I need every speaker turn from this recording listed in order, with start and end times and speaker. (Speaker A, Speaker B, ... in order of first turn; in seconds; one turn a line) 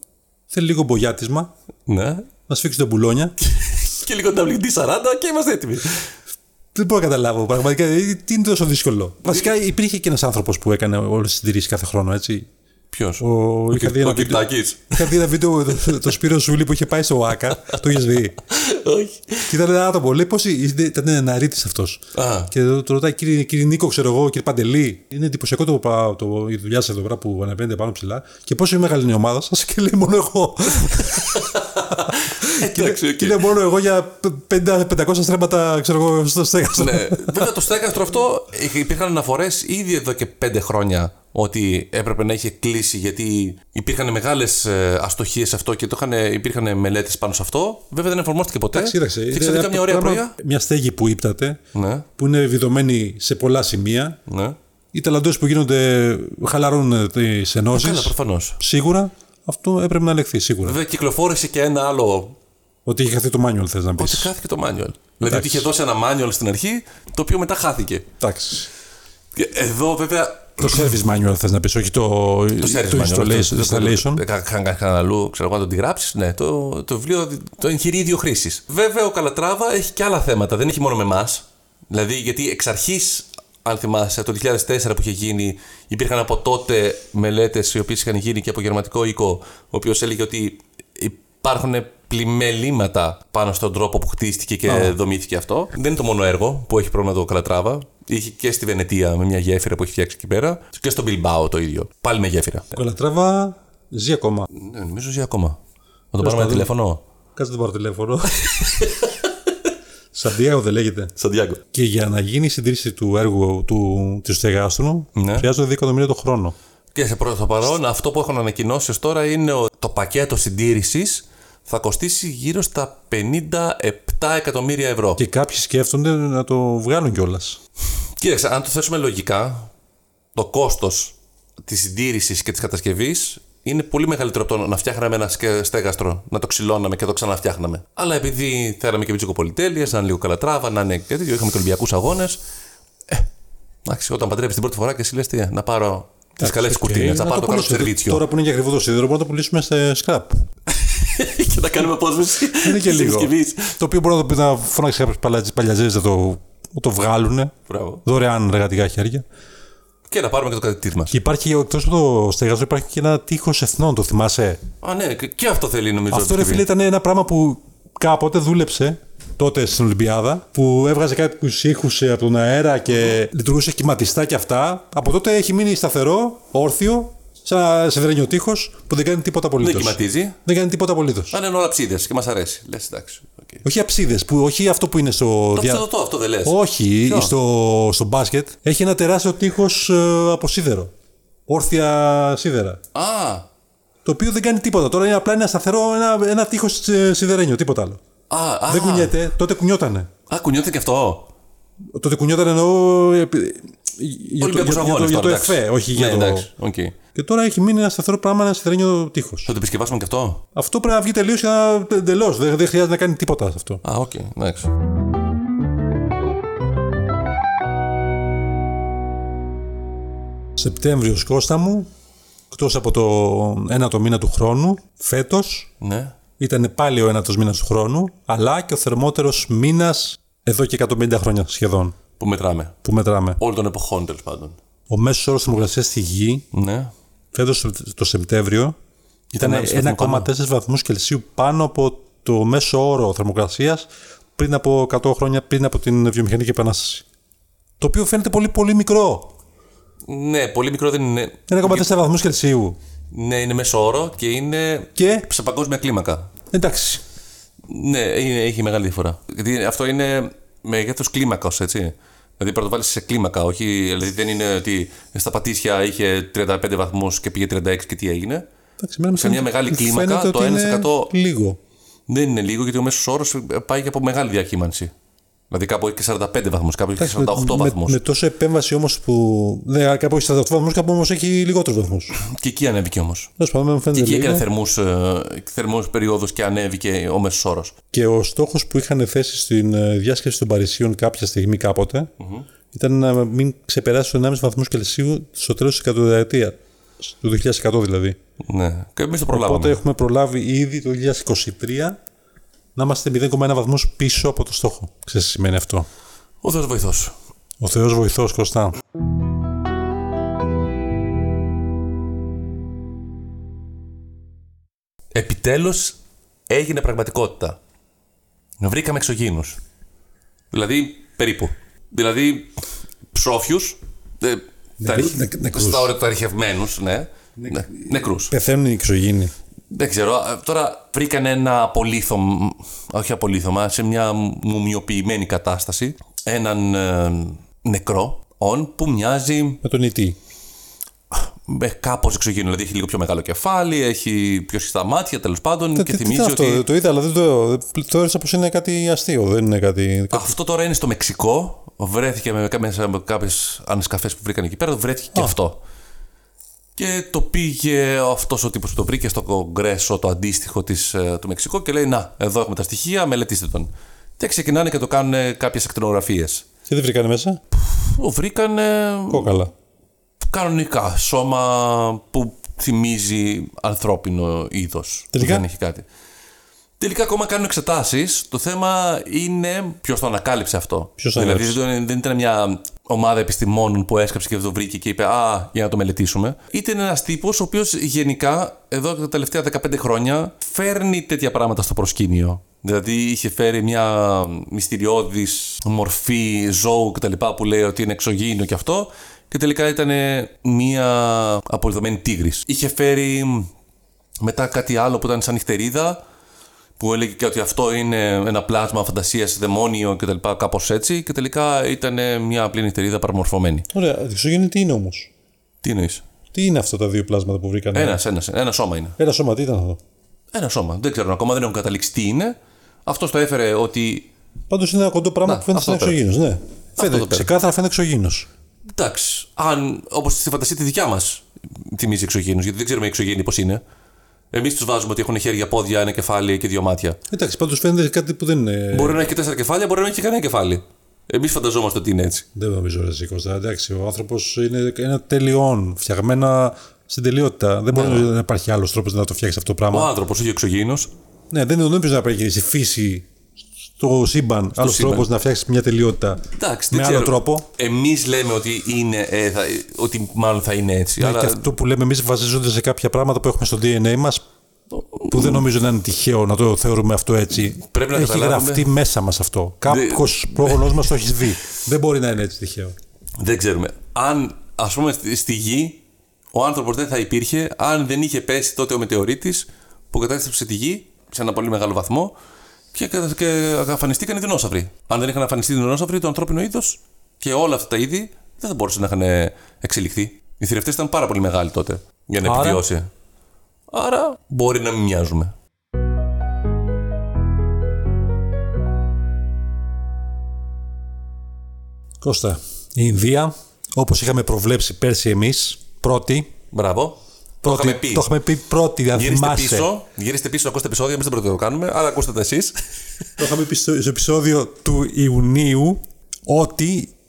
Speaker A: 0.5-1.5
Speaker B: 1.9-2.3
Speaker A: 2.5-3.4
Speaker B: 3.4-6.1
Speaker A: 6.7-12.5
Speaker B: 12.9-15.2
Speaker A: 13.2-18.4
Speaker B: 18.4-19.5
Speaker A: 19.5-37.6
Speaker B: 22.1-22.5
Speaker B: 31.3-33.5
Speaker B: 36.8-50.4
Speaker A: 48.7-51.6
Speaker B: 51.7-52.1
Speaker A: 52.2-54.2
Speaker B: 54.3-54.6
Speaker A: 54.9-60.8
Speaker B: 57.7-58.6
Speaker B: 60.6-62.4
Speaker A: 62.9-64.3
Speaker B: 64.0-68.1
Speaker A: 65.3-65.7
Speaker A: 68.2-68.7
Speaker B: 69.3-70.9
Speaker A: 70.6-74.2
Speaker B: 72.6-102.7
Speaker A: 94.7-95.0
Speaker A: 102.7-104.5
Speaker B: 104.5-105.6
Speaker B: 106.1-107.0
Speaker A: 106.2-106.7
Speaker A: 107.4-108.5
Speaker B: 108.4-109.3
Speaker A: 110.1-111.1
Speaker B: 111.2-111.6
Speaker A: 111.7-116.5
Speaker B: 115.2-115.5
Speaker B: 117.0-125.2
Speaker A: 125.2-127.6
Speaker B: 128.2-129.7
Speaker B: 130.3-142.4
Speaker B: 143.8-148.2
Speaker A: 146.4-150.3
Speaker B: 150.7-153.8
Speaker A: 152.6-157.5
Speaker B: 157.7-158.0
Speaker A: 158.1-159.2
Speaker B: 160.1-161.2
Speaker A: 161.1-164.6
Speaker B: 164.8-166.7
Speaker A: 166.1-181.3
Speaker B: 179.6-180.4
Speaker B: 181.3-183.7
Speaker A: 183.6-185.8
Speaker B: 185.6-187.3
Speaker A: 186.4-190.9
Speaker A: 191.5-192.8
Speaker B: 192.9-193.5
Speaker A: 194.1-198.0
Speaker B: 198.3-199.2
Speaker A: 198.7-200.1
Speaker B: 200.3-201.3
Speaker A: 201.9-206.5
Speaker B: 204.4-207.0
Speaker A: 207.2-209.5
Speaker B: 209.5-210.4
Speaker A: 210.6-213.8
Speaker B: 213.8-214.7
Speaker A: 220.6-221.9
Speaker A: 222.5-225.7
Speaker B: 225.8-226.2
Speaker A: 226.4-232.0
Speaker B: 232.2-232.8
Speaker A: 232.8-233.4
Speaker B: 233.4-234.6
Speaker A: 234.9-236.5
Speaker B: 236.5-236.9
Speaker A: 237.3-238.8
Speaker B: 239.3-240.3
Speaker A: 239.4-247.1
Speaker A: 247.8-249.3
Speaker B: 250.1-251.9
Speaker A: 251.5-252.8
Speaker B: 253.1-256.3
Speaker A: 255.0-255.3
Speaker A: 256.5-257.0
Speaker B: 257.7-268.4
Speaker A: 268.8-271.6
Speaker B: 269.1-271.1
Speaker B: 272.1-274.9
Speaker B: 275.5-278.0
Speaker A: 277.0-282.1
Speaker B: 282.1-283.3
Speaker A: 283.4-284.5
Speaker B: 283.9-287.7
Speaker A: 287.9-292.1
Speaker B: 292.2-292.5
Speaker A: 292.7-298.2
Speaker B: 298.4-299.8
Speaker A: 299.3-302.0
Speaker A: 302.8-305.9
Speaker B: 306.4-307.1
Speaker A: 307.6-308.8
Speaker B: 315.1-316.0
Speaker B: 316.5-317.6
Speaker B: 318.6-319.6
Speaker B: 320.5-322.6
Speaker B: 323.1-328.3
Speaker A: 324.8-325.9
Speaker A: 327.4-329.3
Speaker B: 329.7-339.6
Speaker A: 339.6-340.2
Speaker B: 341.1-346.6
Speaker A: 345.8-350.4
Speaker B: 350.1-355.6
Speaker B: 356.8-366.5
Speaker A: 366.7-367.4
Speaker B: 367.6-369.4
Speaker A: 369.1-369.5
Speaker B: 370.3-375.9
Speaker A: 375.1-375.5
Speaker B: 376.8-403.5
Speaker A: 381.0-381.6
Speaker B: 404.2-406.0
Speaker B: 406.8-413.7
Speaker A: 413.7-415.1
Speaker B: 415.6-416.0
Speaker A: 416.3-418.0
Speaker B: 417.7-419.0
Speaker A: 419.0-419.8
Speaker B: 420.3-424.1
Speaker A: 424.5-428.3
Speaker B: 425.2-426.0
Speaker B: 426.8-427.3
Speaker B: 428.7-433.6
Speaker B: 434.3-437.0
Speaker A: 437.1-439.0
Speaker B: 438.7-442.3
Speaker A: 442.4-449.9
Speaker B: 447.7-448.1
Speaker B: 449.7-450.9
Speaker A: 451.3-453.1
Speaker A: 453.6-457.5
Speaker B: 454.6-455.1
Speaker B: 456.4-461.5
Speaker A: 461.0-464.2
Speaker B: 464.7-465.4
Speaker A: 465.1-472.8
Speaker B: 467.7-468.7
Speaker B: 469.7-470.9
Speaker B: 473.2-475.8
Speaker B: 476.3-482.1
Speaker B: 482.7-492.9
Speaker A: 492.2-492.6
Speaker B: 493.7-495.3
Speaker A: 502.0-506.3
Speaker B: 506.5-508.1
Speaker A: 507.4-509.7
Speaker B: 508.9-512.6
Speaker A: 513.2-516.9